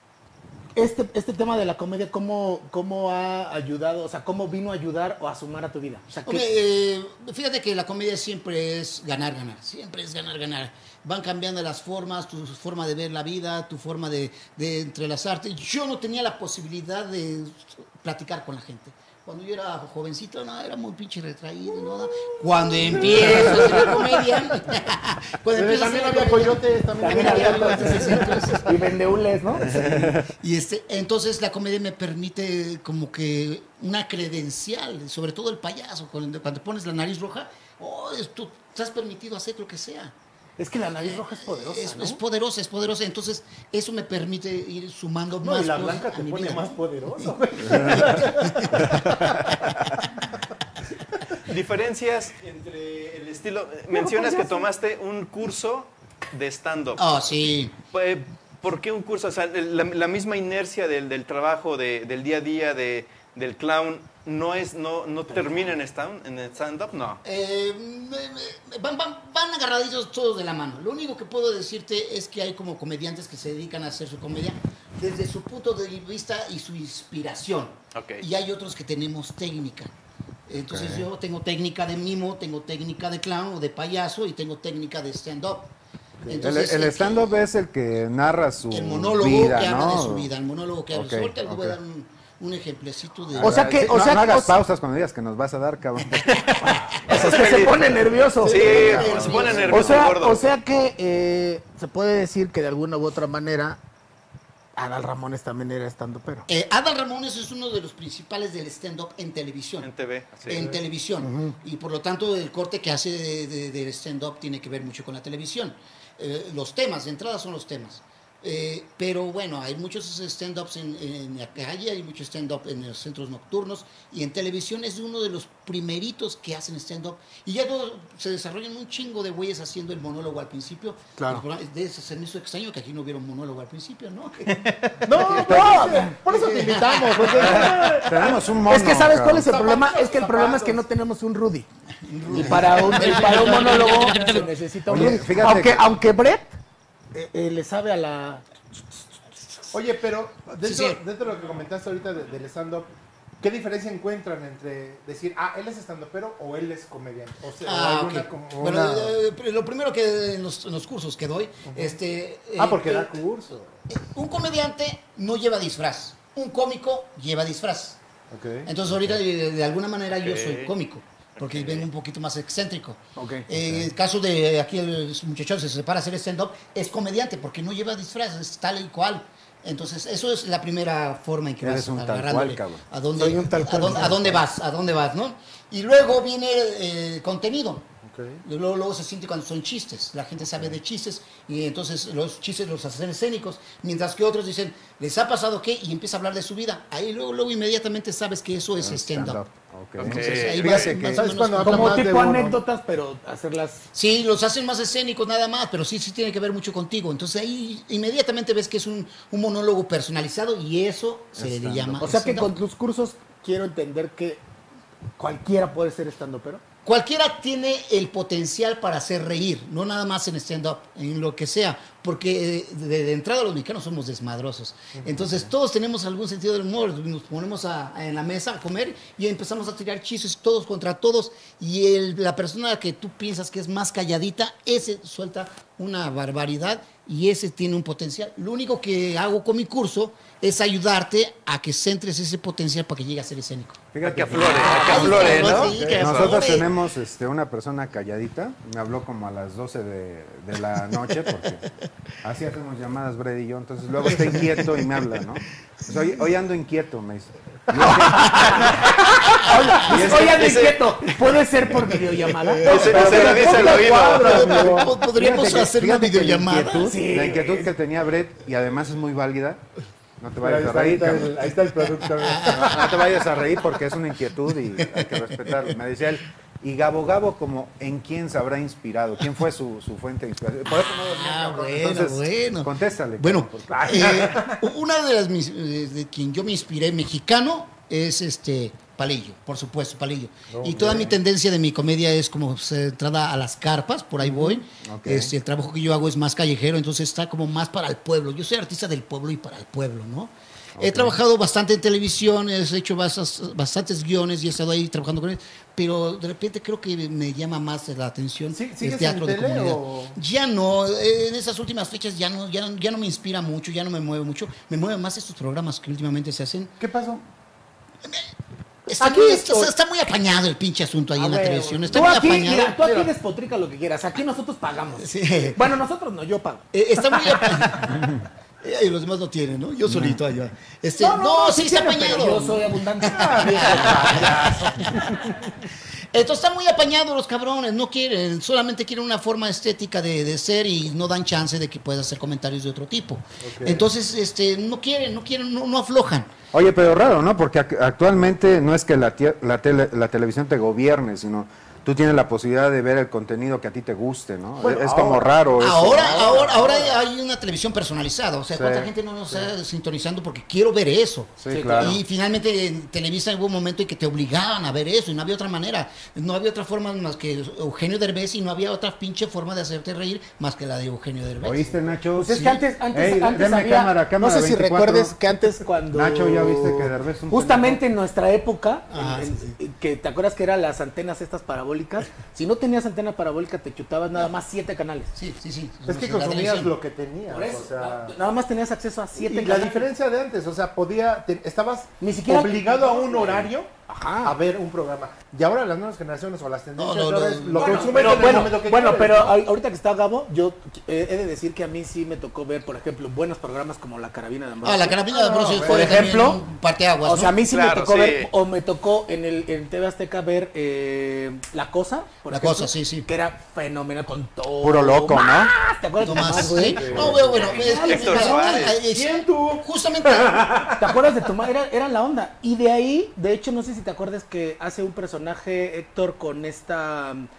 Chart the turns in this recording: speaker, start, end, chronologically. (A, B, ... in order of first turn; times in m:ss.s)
0:00.7-0:06.5 A
0:06.2-0:28.7 B
0:22.8-0:24.1 C
0:25.5-0:28.7 C
0:27.0-0:30.1 A
0:29.7-0:40.1 B
0:40.6-0:42.2 A
0:41.0-0:49.0 B
0:45.4-0:49.5 C
0:51.4-0:57.3 D
0:53.9-0:54.7 A
0:57.0-0:57.7 B
0:57.9-1:07.2 D
1:07.2-1:19.9 B
1:17.9-1:18.2 D
1:20.5-1:25.7 B
1:20.7-1:21.1 E
1:26.2-1:27.4 B
1:26.4-1:30.3 E
1:28.7-1:33.8 B
1:30.9-1:31.8 E
1:33.3-1:36.6 E
1:33.4-1:34.6 A
1:36.4-1:43.8 A
1:37.1-1:37.8 D
1:38.4-1:40.5 D
1:38.4-1:40.0 B
1:38.7-1:39.4 E
1:44.8-1:46.4 A
1:46.5-1:49.9 B
1:49.8-1:50.6 D
1:50.4-2:14.6 B
1:50.5-1:50.8 C
1:51.2-1:51.6 E
2:14.5-2:14.9 D
2:15.0-2:18.4 C
2:15.2-2:17.6 B
2:15.4-2:16.1 A
2:15.4-2:16.0 E
2:17.3-2:19.5 E
2:17.4-2:21.7 A
2:19.3-2:20.8 C
2:22.0-2:24.5 B
2:22.3-2:26.5 A
2:23.3-2:23.8 C
2:24.9-2:25.8 E
2:27.1-2:29.0 A
2:29.7-2:39.2 C
2:30.6-2:31.0 B
2:37.6-2:43.1 B
2:41.7-2:42.0 C
2:42.6-2:43.7 C
2:43.9-2:48.0 B
2:48.3-2:48.7 C
2:48.6-3:07.9 B
2:48.8-2:49.2 E
2:50.2-2:50.7 D
2:51.4-2:51.9 D
2:53.2-2:53.4 A
2:53.6-2:53.8 E
3:01.6-3:02.8 E
3:03.2-3:04.4 A
3:08.0-3:08.4 C
3:08.4-3:19.4 B
3:18.8-3:21.3 E
3:20.0-3:20.9 D
3:20.0-3:22.0 B
3:21.0-3:22.6 C
3:21.6-3:23.8 A
3:23.9-3:32.5 B
3:31.4-3:32.1 E
3:32.0-3:34.4 A
3:35.2-3:36.6 A
3:36.8-4:03.8 B
4:03.9-4:11.6 E
4:04.0-4:06.4 D
4:04.4-4:05.7 A
4:04.5-4:06.7 B
4:05.1-4:06.0 C
4:12.2-4:18.9 E
4:17.8-4:25.7 A
4:19.8-4:20.5 E
4:20.0-4:21.1 D
4:22.6-4:24.5 D
4:22.7-4:25.0 C
4:22.9-4:27.0 B
4:25.2-4:29.6 E
4:26.7-4:27.7 A
4:30.2-4:31.5 E
4:30.4-4:33.1 C
4:32.2-4:32.9 B
4:32.5-4:44.2 E
4:34.8-4:35.1 B
4:40.9-5:16.7 B
4:43.7-4:44.5 A
4:50.6-4:51.1 C
4:50.6-4:51.1 E
4:54.2-4:55.3 E
5:00.8-5:01.2 E
5:08.5-5:10.2 C
5:16.8-5:17.2 C
5:18.9-5:22.8 B
5:19.0-5:19.7 A
5:21.2-5:27.7 A
5:22.8-5:23.1 C
5:25.0-5:25.6 B
5:26.7-5:35.3 B
5:29.9-5:30.2 E
5:31.0-5:35.0 A
5:33.3-5:34.6 C
5:36.1-5:46.3 B
5:43.4-5:43.8 C
5:46.5-5:56.8 E
5:54.6-5:55.3 C
5:55.6-6:11.7 B
5:56.1-5:56.9 C
5:58.6-5:58.9 E
6:01.4-6:02.0 E
6:01.5-6:02.0 A
6:11.4-6:15.2 E
6:12.1-6:25.1 A
6:12.3-6:12.6 B
6:15.9-6:17.8 E
6:18.9-6:19.5 B
6:25.1-6:26.7 B
6:25.9-6:28.1 C
6:27.3-6:29.9 A
6:29.2-6:33.7 C
6:32.0-6:34.4 A
6:34.2-6:39.4 C
6:36.8-6:38.4 B
6:37.5-6:46.4 A
6:44.6-6:47.4 B
6:47.0-6:59.3 A
6:47.5-6:48.3 D
6:52.3-6:53.1 B
6:54.6-6:55.5 E
6:56.0-7:00.7 B
6:56.6-6:57.5 C
6:56.9-6:57.2 E
6:57.4-6:58.8 D
7:00.5-7:07.3 A